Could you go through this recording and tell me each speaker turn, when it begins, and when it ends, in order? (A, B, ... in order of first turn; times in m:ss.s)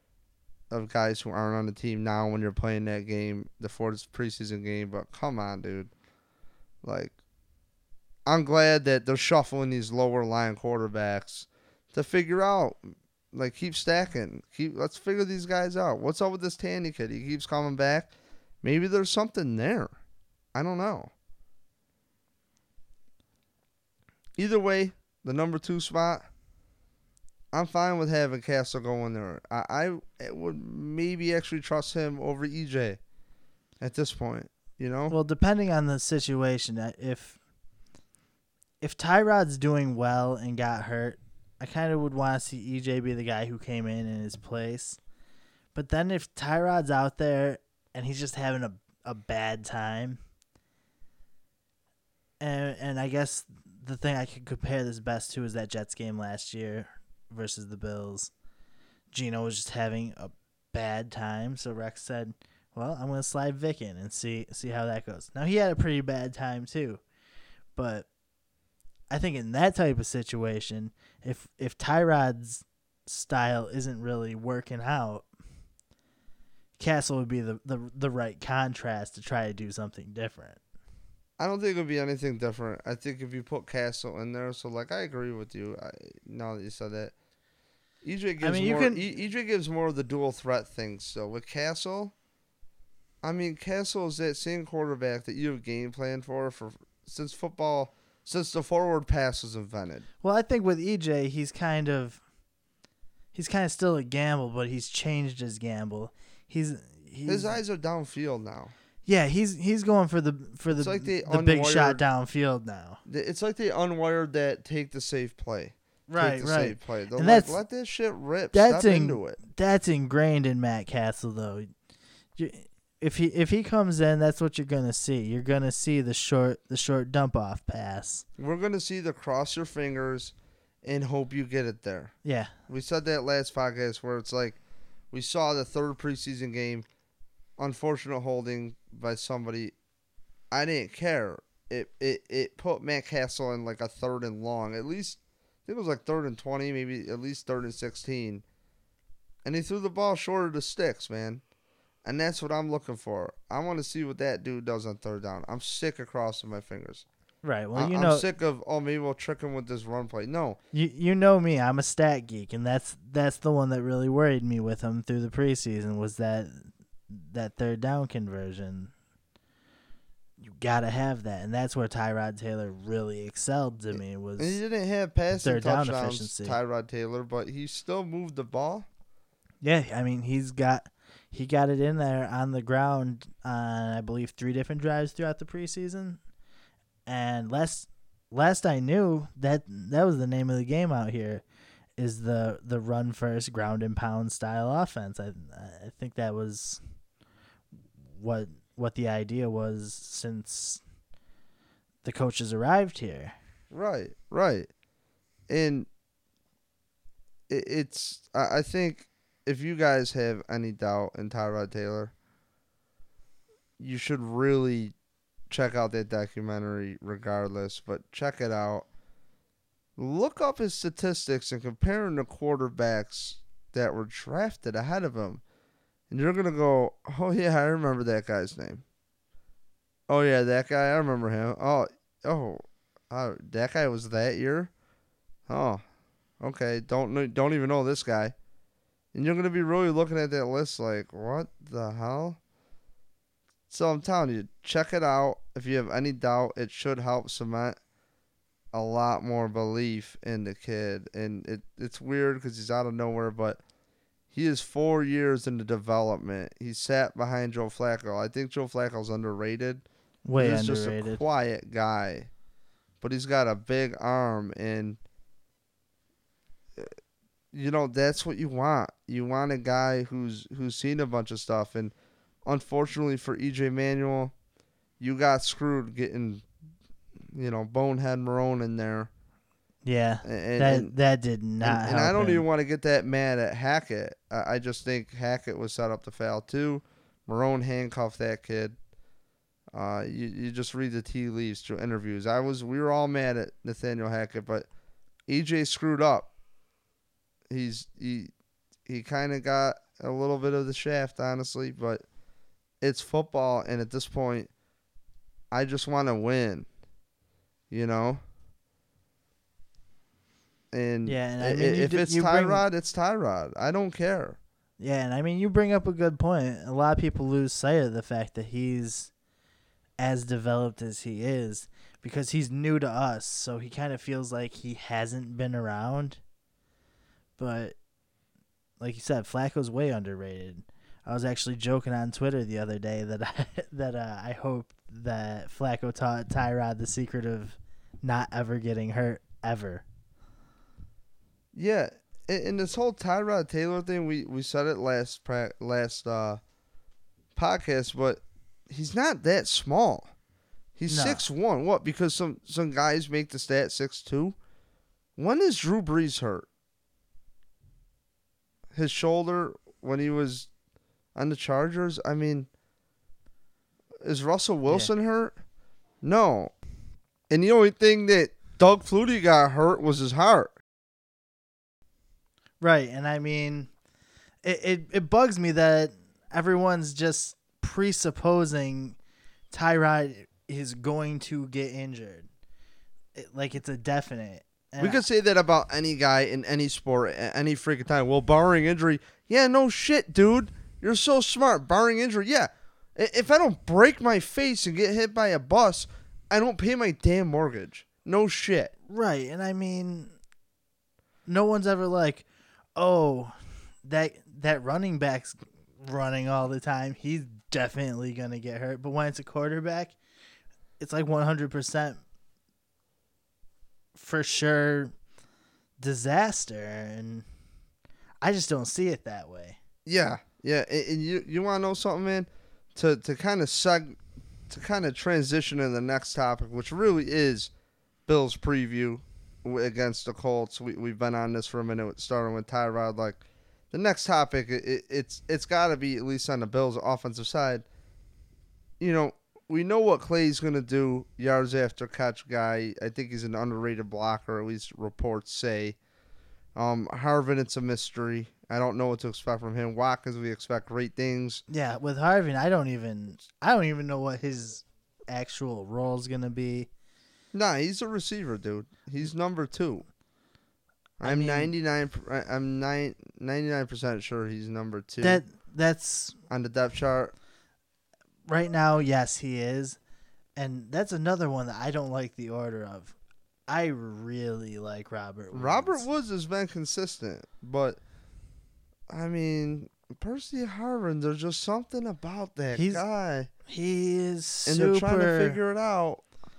0:00.7-0:05.9 A
0:06.8-0:07.2 A
0:08.3-0:18.1 A
0:18.6-0:19.9 A
0:20.6-0:21.1 A
0:24.4-0:26.2 A
0:27.5-0:33.0 A
0:33.8-0:35.1 A
0:35.1-0:37.4 B
0:38.8-0:45.0 B
0:45.7-0:50.2 B
0:52.4-0:58.3 B
0:59.1-1:07.0 B
1:07.8-1:08.1 B
1:09.1-1:15.3 B
1:16.8-1:20.6 B
1:21.4-1:27.1 A
1:28.0-1:32.1 A
1:28.4-1:29.0 B
1:33.2-1:40.1 A
1:40.2-1:42.2 B
1:43.3-1:47.6 B
1:47.3-1:48.7 A
1:49.0-1:53.0 B
1:50.8-1:52.0 A
1:53.0-1:59.4 A
1:56.1-1:57.6 B
1:58.5-2:01.7 B
2:02.4-2:08.2 B
2:08.4-2:12.1 A
2:12.2-2:12.5 B
2:12.7-2:14.6 A
2:15.1-2:16.9 A
2:17.6-2:19.7 A
2:20.5-2:28.4 A
2:29.4-2:31.4 A
2:32.0-2:37.0 A
2:37.4-2:38.3 B
2:37.7-2:40.6 A
2:40.7-2:48.9 B
2:50.4-2:54.6 B
2:53.9-2:58.9 A
2:55.4-2:56.6 B
2:59.6-3:06.2 B
3:07.0-3:11.4 B
3:12.0-3:16.8 B
3:18.1-3:20.8 B
3:22.0-3:23.3 B
3:23.7-3:24.7 A
3:25.5-3:25.9 A
3:27.5-3:32.1 A
3:33.8-3:34.9 A
3:35.5-3:38.9 A
3:40.0-3:45.4 A
3:46.1-3:48.8 A
3:50.1-3:54.7 A
3:55.5-3:55.8 A
3:56.4-3:58.3 A
3:59.1-4:02.4 A
4:03.7-4:07.8 A
4:08.7-4:13.6 A
4:14.3-4:22.3 A
4:20.2-4:21.2 B
4:23.0-4:25.0 A
4:27.5-4:31.9 A
4:32.4-4:34.3 A
4:35.0-4:36.5 A
4:37.2-4:39.1 A
4:39.8-4:42.4 B
4:40.2-4:40.9 A
4:41.6-4:48.8 A
4:49.7-4:54.7 A
4:55.3-4:56.3 A
4:57.5-4:58.3 A
4:58.9-5:02.0 A
5:02.8-5:04.5 A
5:05.5-5:06.7 A
5:07.7-5:08.2 A
5:10.7-5:14.4 A
5:11.0-5:12.6 B
5:14.8-5:19.1 B
5:20.0-5:26.2 B
5:27.4-5:27.8 B
5:28.8-5:39.8 B
5:41.5-5:46.4 A
5:47.4-5:50.1 A
5:50.8-5:54.4 A
5:50.9-5:51.2 B
5:55.2-5:56.5 A
5:58.7-6:00.5 A
6:01.1-6:02.5 A
6:04.0-6:05.4 A
6:06.0-6:06.5 A
6:07.3-6:10.6 A
6:12.6-6:13.7 B
6:14.4-6:19.0 B
6:19.5-6:22.3 B
6:23.1-6:25.0 B
6:24.8-6:38.7 A
6:38.9-6:40.1 B
6:41.2-6:42.2 B
6:42.8-6:50.0 B
6:50.8-6:52.0 B
6:53.9-6:54.9 B
6:55.8-6:57.2 B
6:58.2-6:59.6 B
6:59.8-7:07.5 A
7:08.1-7:17.6 A
7:18.8-7:25.8 A
7:26.6-7:31.4 A
7:31.5-7:36.7 B
7:37.3-7:39.9 A
7:41.0-7:45.2 A
7:41.0-7:41.5 B
7:45.0-7:46.2 B
7:46.3-7:47.1 A
7:48.3-7:49.8 B
7:50.4-7:53.0 B
7:53.5-7:55.8 B
7:55.3-7:57.8 A
7:58.9-8:03.3 A
8:02.5-8:02.8 B
8:03.4-8:05.4 B
8:04.5-8:06.0 A